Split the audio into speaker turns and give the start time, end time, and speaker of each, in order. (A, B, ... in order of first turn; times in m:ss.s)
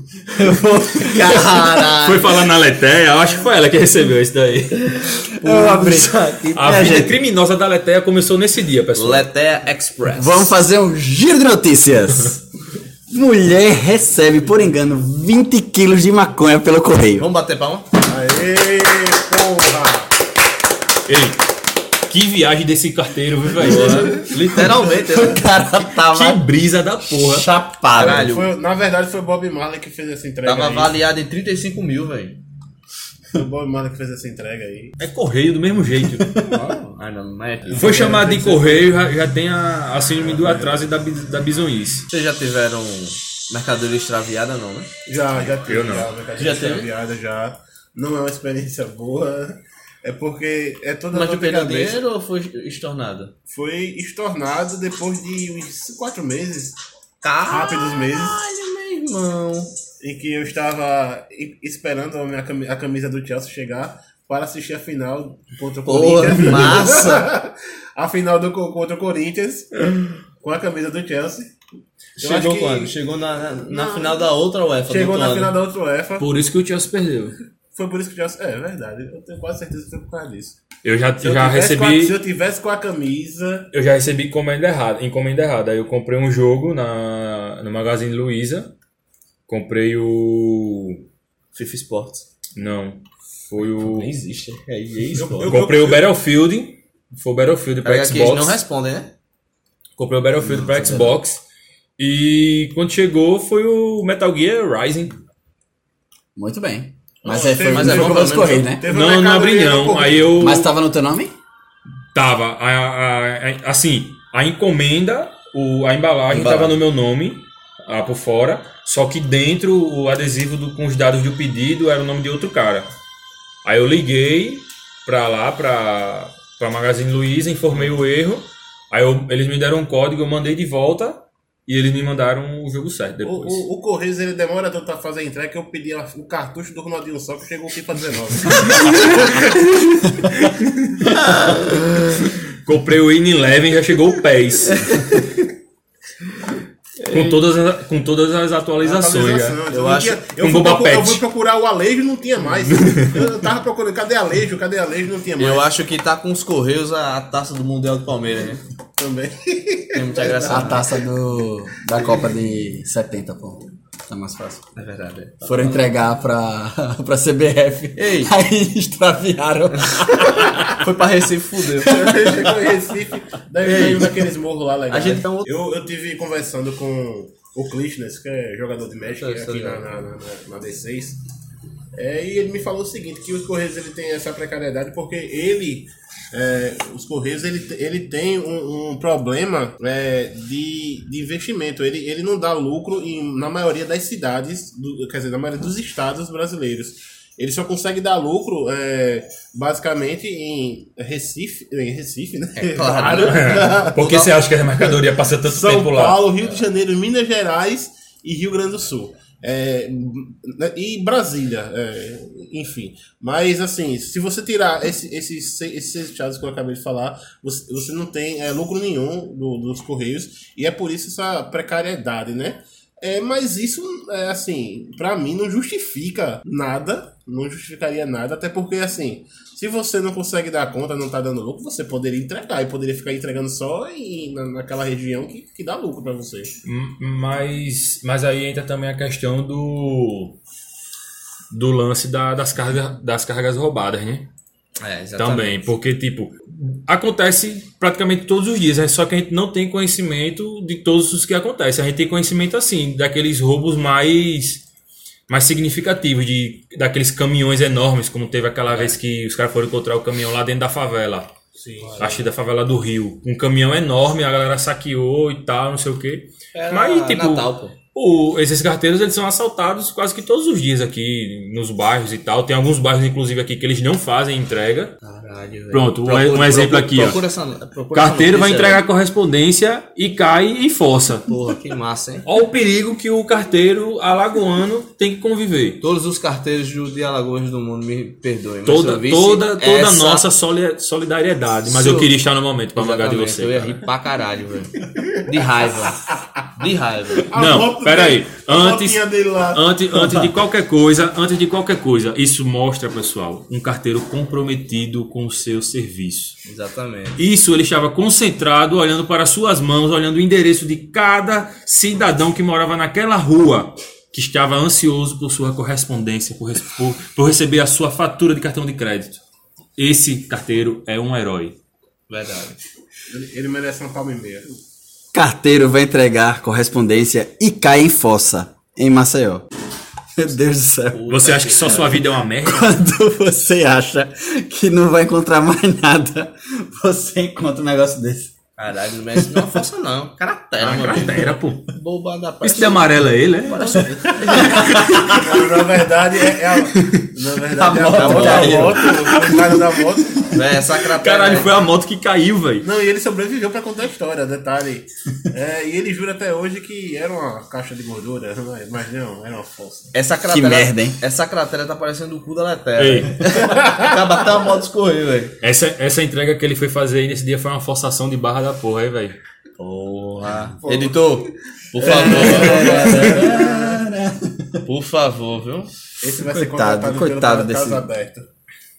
0:00.3-0:02.0 A
0:01.0-0:02.3 B
0:01.8-0:05.1 C
0:04.8-0:07.1 B
0:05.3-0:07.0 A
0:06.5-0:09.3 C
0:08.9-0:10.5 B
0:10.1-0:12.4 A
0:13.1-0:17.3 A
0:17.2-0:17.9 B
0:18.0-0:20.1 D
0:21.1-0:21.4 C
0:22.1-0:24.3 C
0:23.6-0:25.4 B
0:24.8-0:26.4 A
0:26.0-0:27.5 C
0:27.1-0:28.3 A
0:27.9-0:28.5 B
0:27.9-0:30.9 D
0:30.4-0:32.4 B
0:33.3-0:35.0 D
0:35.0-0:36.3 C
0:36.2-0:36.6 A
0:36.4-0:38.4 B
0:37.7-0:38.8 D
0:37.7-0:42.1 C
0:42.1-0:44.9 B
0:45.1-0:52.0 D
0:45.6-0:46.1 C
0:46.4-0:46.9 B
0:51.1-0:53.3 B
0:53.5-0:56.8 D
0:57.2-0:59.7 B
0:57.5-0:58.4 D
1:00.0-1:09.9 D
1:05.8-1:07.3 B
1:10.4-1:11.5 D
1:12.2-1:15.6 B
1:12.2-1:12.9 D
1:13.7-1:14.2 D
1:14.9-1:16.3 D
1:16.2-1:17.4 C
1:17.7-1:20.6 D
1:20.8-1:22.2 C
1:21.2-1:23.7 D
1:23.7-1:28.7 C
1:29.5-1:31.0 C
1:31.5-1:32.2 B
1:32.6-1:34.1 C
1:33.8-1:35.6 B
1:35.1-1:36.1 D
1:35.4-1:38.6 C
1:37.8-1:39.1 B
1:40.0-1:41.4 C
1:40.6-1:41.2 B
1:42.0-1:45.1 C
1:46.4-1:48.8 A
1:47.2-1:50.3 D
1:47.7-1:48.7 B
1:48.8-1:50.7 C
1:50.4-1:51.3 A
1:52.1-2:02.9 C
1:56.3-1:56.8 B
2:03.6-2:13.6 C
2:13.2-2:19.5 D
2:20.3-2:21.2 C
2:21.2-2:22.2 B
2:22.5-2:25.0 C
2:24.6-2:25.4 B
2:27.0-2:27.4 B
2:27.1-2:29.6 C
2:28.8-2:35.6 D
2:29.7-2:30.2 B
2:30.4-2:31.2 C
2:32.6-2:33.3 C
2:35.4-2:38.6 B
2:39.0-2:40.9 D
2:39.9-2:40.9 B
2:40.5-2:44.6 A
2:44.8-2:45.9 B
2:45.4-2:50.8 A
2:48.0-2:48.3 B
2:49.8-2:52.2 B
2:51.8-2:52.5 A
2:51.8-3:01.2 D
2:53.6-2:54.3 B
2:54.9-2:55.5 B
2:59.2-2:59.8 B
3:01.9-3:24.0 D
3:22.6-3:24.5 B
3:23.0-3:26.2 C
3:25.4-3:56.5 D
3:56.6-4:00.4 C
4:01.5-4:04.3 C
4:04.8-4:05.6 B
4:05.2-4:14.6 C
4:15.3-4:21.3 C
4:21.6-4:22.1 D
4:21.8-4:22.2 B
4:22.0-4:34.9 C
4:26.5-4:27.8 B
4:35.0-4:38.8 B
4:35.7-4:37.2 C
4:37.9-4:41.3 C
4:41.3-4:42.3 B
4:42.2-4:45.8 C
4:45.8-4:50.2 B
4:48.6-4:53.9 C
4:51.7-4:52.1 B
4:52.7-4:56.0 B
4:56.6-4:57.3 B
4:57.3-4:59.7 D
4:57.3-5:06.4 C
5:00.0-5:00.3 A
5:06.4-5:07.2 B
5:07.2-5:19.2 C
5:19.8-5:21.6 C
5:22.1-5:22.6 B
5:23.1-5:24.6 D
5:25.1-5:29.4 A
5:30.2-5:31.0 A
5:30.9-5:32.0 B
5:31.1-5:32.7 C
5:32.4-5:38.3 A
5:38.6-5:45.1 B
5:40.6-5:41.6 C
5:42.4-5:45.2 C
5:44.4-5:45.2 A
5:45.0-5:50.2 D
5:46.7-5:47.0 C
5:47.5-5:49.3 A
5:47.9-5:48.8 B
5:48.8-5:49.6 C
5:50.2-5:51.5 B
5:50.8-5:52.7 C
5:52.6-5:59.9 D
5:59.9-6:05.4 B
6:00.3-6:01.0 A
6:02.8-6:03.3 C
6:03.4-6:04.0 D
6:05.4-6:09.2 C
6:09.6-6:13.3 B
6:10.6-6:13.8 D
6:11.8-6:14.6 A
6:12.8-6:13.3 C
6:14.6-6:15.7 B
6:16.0-6:18.2 D
6:16.2-6:17.8 A